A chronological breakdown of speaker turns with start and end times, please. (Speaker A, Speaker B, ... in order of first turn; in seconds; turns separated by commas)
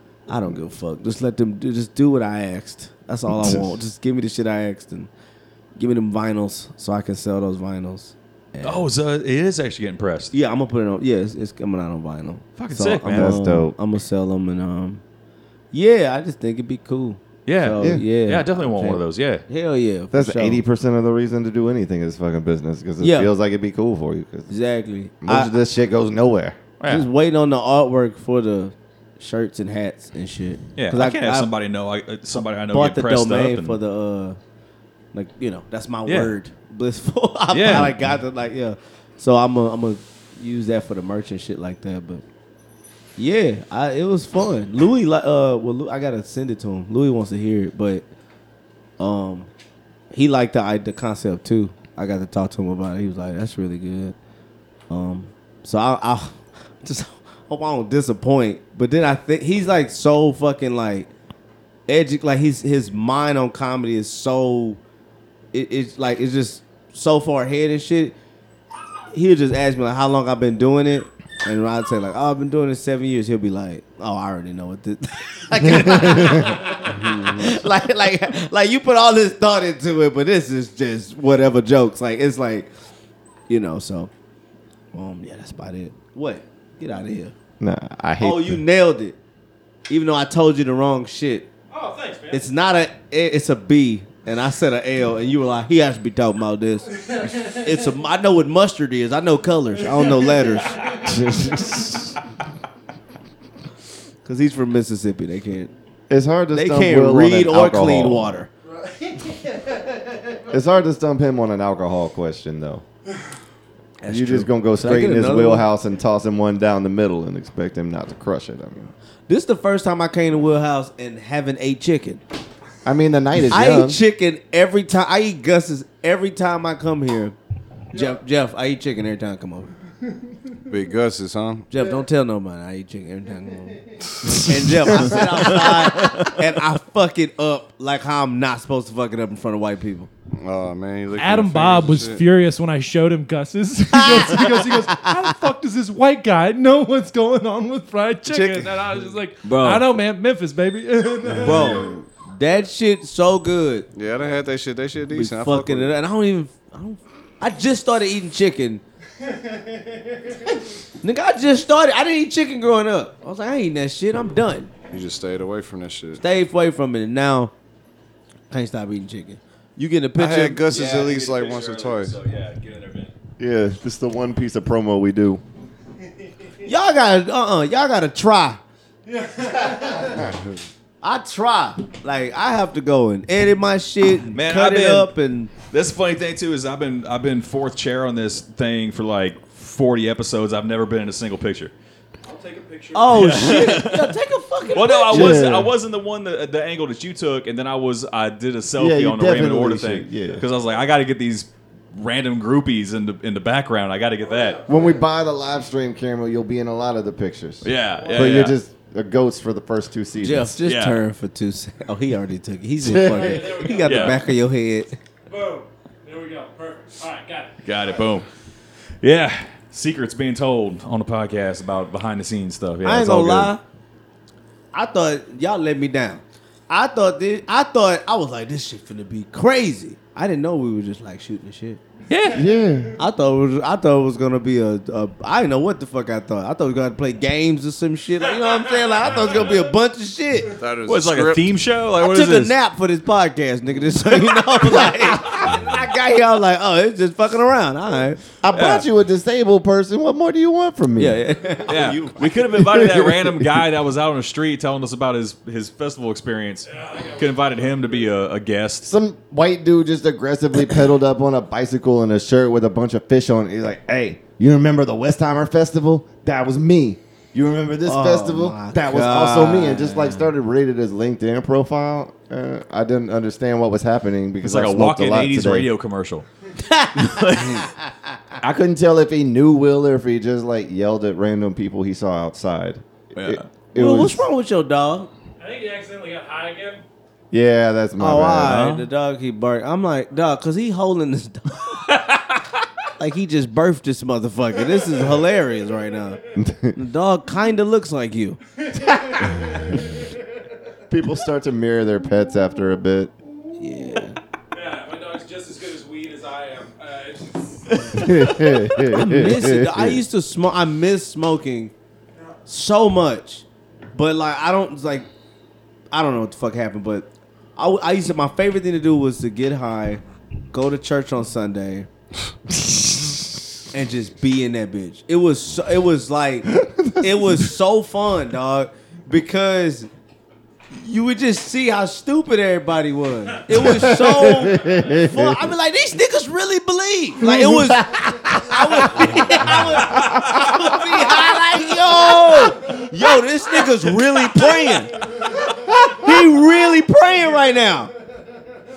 Speaker A: 0.3-5.1, Speaker A: 5.8-8.8, Speaker B: 8.6-10.3, Speaker A: 10.3-15.0, Speaker B: 12.6-13.4, Speaker C: 13.1-13.7, Speaker A: 15.7-20.6, Speaker B: 17.4-19.4, Speaker C: 17.8-18.0, Speaker C: 20.1-24.5, Speaker A: 23.0-23.3, Speaker A: 24.5-25.5, Speaker C: 25.2-26.6, Speaker B: 26.8-27.1, Speaker A: 26.9-31.5, Speaker B: 30.8-33.8, Speaker A: 32.7-34.4, Speaker A: 35.1-42.2, Speaker B: 36.0-36.3, Speaker B: 37.5-38.0, Speaker A: 43.2-48.0, Speaker A: 49.0-49.5, Speaker A: 50.1-54.1, Speaker A: 54.9-61.1, Speaker A: 61.9-64.8, Speaker A: 65.5-68.1, Speaker A: 69.1-82.7, Speaker C: 75.7-76.6, Speaker D: 76.9-77.5, Speaker A: 83.5-84.1, Speaker A: 84.9-87.3, Speaker C: 87.6-88.6, Speaker A: 88.2-89.2, Speaker A: 89.9-91.5, Speaker E: 91.7-92.4, Speaker A: 92.3-101.0, Speaker E: 97.0-97.6, Speaker E: 100.1-100.5, Speaker C: 101.0-102.1, Speaker A: 104.2-105.7, Speaker C: 106.1-108.4, Speaker A: 106.5-108.5, Speaker E: 109.1-109.6, Speaker C: 110.5-112.8, Speaker A: 114.0-115.6, Speaker C: 114.1-118.9, Speaker A: 119.3-122.2, Speaker C: 122.8-124.0, Speaker A: 123.5-127.3, Speaker A: 127.9-129.7, Speaker D: 130.7-131.7, Speaker A: 131.7-140.1, Speaker D: 140.3-142.2, Speaker E: 141.2-151.9, Speaker A: 143.9-145.3, Speaker D: 148.3-148.7, Speaker A: 149.4-149.8, Speaker A: 151.4-153.9, Speaker D: 151.6-152.0, Speaker D: 153.9-155.9, Speaker A: 155.1-158.8, Speaker A: 161.0-164.7, Speaker D: 164.9-166.2, Speaker A: 166.2-167.5, Speaker A: 168.5-170.6, Speaker D: 170.2-172.2, Speaker B: 170.6-173.1, Speaker C: 173.4-175.4, Speaker A: 176.6-178.6, Speaker E: 179.2-180.2, Speaker A: 181.0-185.6, Speaker B: 184.3-191.7, Speaker B: 192.3-204.6, Speaker A: 192.9-195.6, Speaker C: 195.1-195.7, Speaker C: 198.8-200.4, Speaker C: 204.7-210.5, Speaker B: 207.6-208.6, Speaker A: 210.2-215.0, Speaker B: 210.6-211.0, Speaker C: 212.8-213.5, Speaker E: 213.1-214.2, Speaker B: 213.8-214.2, Speaker E: 215.3-217.6, Speaker B: 217.6-218.4, Speaker B: 219.0-223.5, Speaker A: 222.8-223.6, Speaker A: 224.7-231.8, Speaker B: 232.1-232.4, Speaker C: 232.3-233.0, Speaker A: 233.0-240.6, Speaker D: 240.6-241.5, Speaker B: 240.9-242.5, Speaker A: 241.9-248.4, Speaker C: 248.4-251.2, Speaker B: 248.5-248.9, Speaker A: 250.9-252.5, Speaker B: 251.7-258.9, Speaker C: 252.5-253.6, Speaker E: 256.8-257.9, Speaker C: 258.8-275.7, Speaker A: 267.9-270.2, Speaker B: 274.4-276.2, Speaker A: 276.6-278.1, Speaker B: 277.0-277.7, Speaker C: 278.4-284.2, Speaker B: 283.1-283.5, Speaker A: 283.7-285.1, Speaker E: 285.4-286.8, Speaker C: 287.3-288.6, Speaker A: 288.0-291.9, Speaker B: 288.4-288.9, Speaker A: 293.0-296.2, Speaker C: 296.3-296.8, Speaker A: 296.7-298.4, Speaker E: 298.7-299.9, Speaker C: 300.9-303.1, Speaker A: 303.6-304.2, Speaker E: 304.5-308.5, Speaker C: 307.9-310.0, Speaker A: 308.9-311.7, Speaker A: 312.5-315.1, Speaker A: 315.9-320.0, Speaker A: 320.5-321.9, Speaker A: 323.7-326.5, Speaker C: 326.4-327.5, Speaker A: 327.0-329.9, Speaker A: 330.7-347.9, Speaker C: 333.5-335.5, Speaker C: 337.2-340.7, Speaker B: 344.2-344.5